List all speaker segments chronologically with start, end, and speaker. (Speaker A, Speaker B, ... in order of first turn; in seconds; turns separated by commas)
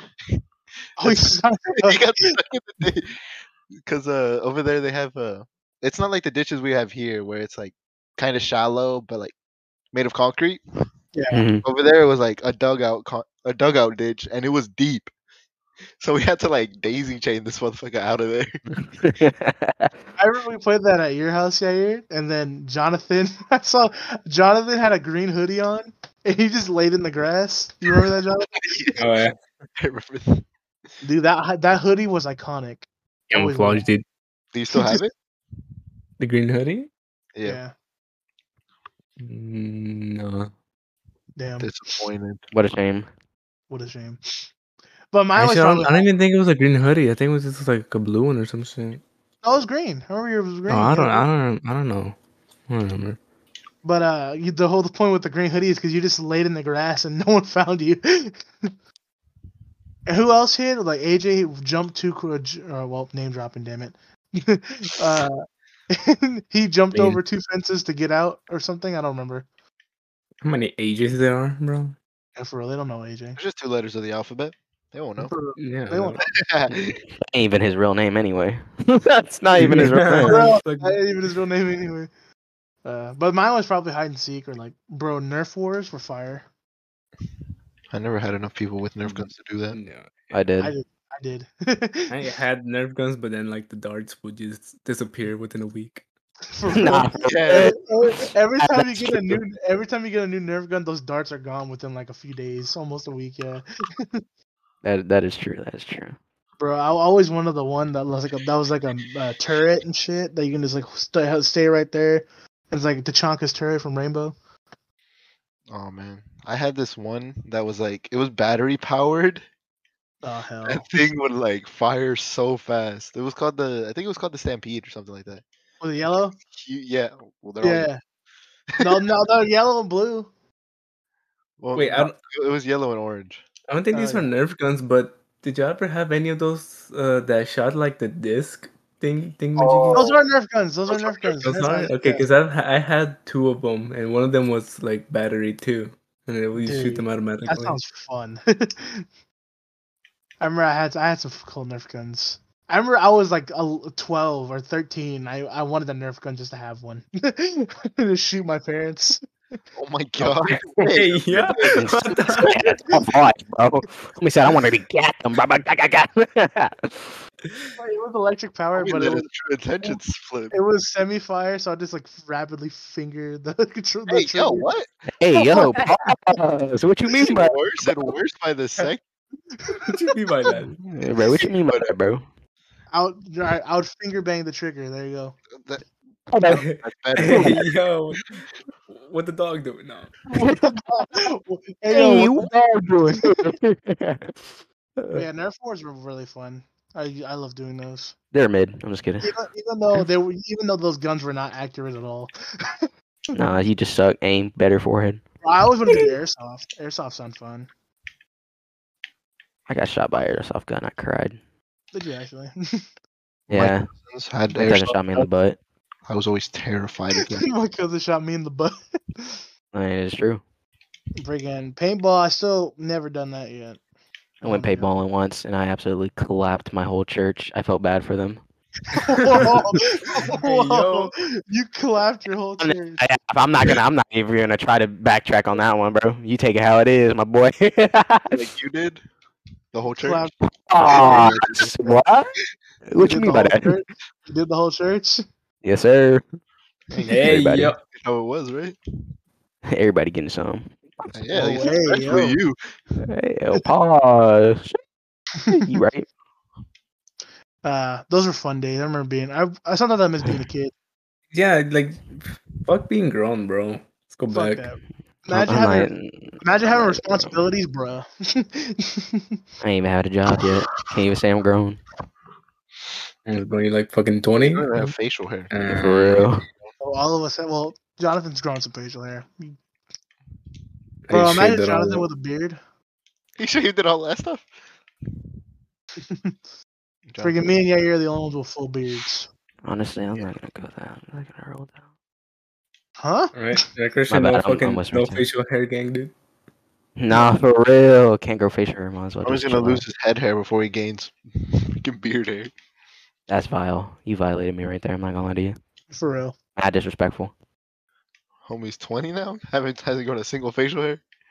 Speaker A: 1.0-2.4, Speaker B: 1.0-9.3, Speaker B: 9.9-10.6, Speaker A: 11.1-11.4, Speaker C: 11.3-11.6, Speaker B: 11.6-15.1, Speaker B: 16.0-18.6, Speaker C: 19.0-19.9, Speaker A: 20.2-28.7, Speaker B: 28.6-29.0, Speaker D: 29.0-29.3, Speaker B: 29.8-30.4, Speaker A: 31.0-33.9, Speaker D: 33.3-34.0, Speaker B: 34.5-35.1, Speaker A: 34.7-35.0, Speaker D: 36.2-36.9, Speaker A: 37.4-37.7, Speaker D: 39.2-40.5, Speaker A: 41.4-41.7, Speaker B: 41.6-42.4, Speaker C: 42.5-43.1, Speaker A: 43.7-44.5, Speaker A: 45.1-46.1, Speaker D: 45.4-49.0, Speaker A: 49.4-51.3, Speaker D: 50.7-52.1, Speaker D: 52.7-53.2, Speaker A: 53.8-58.7, Speaker A: 60.0-69.5, Speaker D: 66.9-67.2, Speaker D: 70.4-71.9, Speaker A: 72.3-73.4, Speaker B: 73.4-75.3, Speaker A: 75.2-76.2, Speaker D: 75.6-76.2, Speaker B: 76.2-77.0, Speaker C: 77.3-80.5, Speaker D: 79.5-81.0, Speaker A: 79.6-82.1, Speaker A: 82.8-86.5, Speaker B: 87.9-89.8, Speaker D: 89.7-90.3, Speaker C: 90.3-90.7, Speaker A: 90.6-92.1, Speaker D: 92.1-96.0, Speaker A: 96.5-104.2, Speaker C: 96.7-97.8, Speaker B: 97.2-97.8, Speaker C: 98.6-99.4, Speaker C: 104.8-106.2, Speaker A: 106.6-114.3, Speaker B: 115.7-119.4, Speaker A: 120.2-120.8, Speaker B: 120.6-125.4, Speaker A: 125.8-126.4, Speaker B: 126.5-127.9, Speaker A: 127.6-128.0, Speaker A: 128.8-130.3, Speaker B: 131.6-133.4, Speaker D: 131.7-132.2, Speaker D: 133.7-140.1, Speaker A: 133.9-134.3, Speaker B: 139.6-140.2, Speaker A: 139.9-142.2, Speaker B: 140.9-141.3, Speaker D: 141.4-147.8, Speaker A: 146.6-149.1, Speaker A: 150.4-159.2, Speaker B: 159.8-162.5, Speaker C: 160.2-161.0, Speaker D: 160.9-162.5, Speaker C: 161.6-167.2, Speaker A: 162.9-163.1, Speaker A: 167.8-169.2, Speaker B: 168.8-170.5, Speaker A: 170.5-174.7, Speaker B: 174.1-174.9, Speaker C: 175.2-177.7, Speaker A: 175.3-175.9, Speaker B: 177.2-179.0, Speaker A: 179.6-180.5, Speaker D: 179.9-180.7, Speaker C: 180.8-182.2, Speaker B: 181.7-181.9, Speaker A: 182.9-185.3, Speaker B: 185.6-185.9, Speaker C: 186.3-186.6, Speaker B: 186.5-187.7, Speaker D: 186.5-190.2, Speaker C: 187.2-187.6, Speaker A: 190.3-192.5, Speaker C: 190.3-190.7, Speaker C: 191.9-195.2, Speaker A: 195.1-198.1, Speaker C: 198.3-199.3, Speaker A: 199.2-202.9, Speaker C: 203.3-205.2, Speaker A: 205.4-207.7, Speaker C: 209.7-211.4, Speaker A: 211.9-212.8, Speaker C: 213.5-213.9, Speaker B: 213.5-215.3, Speaker C: 214.5-215.6, Speaker B: 216.1-217.5, Speaker A: 217.1-219.5, Speaker C: 219.7-220.4, Speaker A: 221.2-223.8, Speaker A: 224.4-224.9, Speaker C: 224.4-228.4, Speaker A: 228.9-233.1, Speaker D: 230.2-231.1, Speaker C: 232.6-238.4, Speaker B: 238.3-239.0, Speaker B: 239.7-240.3, Speaker A: 239.9-240.3, Speaker C: 240.4-242.3, Speaker B: 240.8-241.9, Speaker C: 242.9-243.8, Speaker A: 243.0-245.2, Speaker C: 245.6-246.2, Speaker C: 247.0-247.7, Speaker D: 247.1-247.8, Speaker B: 247.9-248.8, Speaker C: 249.7-251.1, Speaker B: 251.1-252.6, Speaker A: 251.3-252.4, Speaker C: 253.0-254.8, Speaker A: 255.4-255.8, Speaker C: 255.5-256.1, Speaker A: 257.6-260.7, Speaker D: 261.3-264.7, Speaker A: 264.3-265.9, Speaker C: 265.3-267.4, Speaker A: 266.4-269.4, Speaker C: 269.6-271.8, Speaker D: 273.2-274.9, Speaker B: 274.4-275.5, Speaker D: 275.5-276.2, Speaker C: 275.6-276.4, Speaker B: 276.5-276.7, Speaker A: 276.8-279.6, Speaker D: 281.1-282.1, Speaker A: 281.1-282.6, Speaker B: 283.4-284.5, Speaker A: 286.0-286.4, Speaker B: 287.1-287.5, Speaker A: 287.2-289.3, Speaker C: 289.6-291.7, Speaker A: 293.0-293.6, Speaker D: 293.3-296.1, Speaker C: 294.1-295.2, Speaker C: 297.0-299.8, Speaker B: 299.2-302.5, Speaker C: 303.3-305.6, Speaker A: 305.9-306.3, Speaker C: 306.6-307.3, Speaker B: 308.4-311.0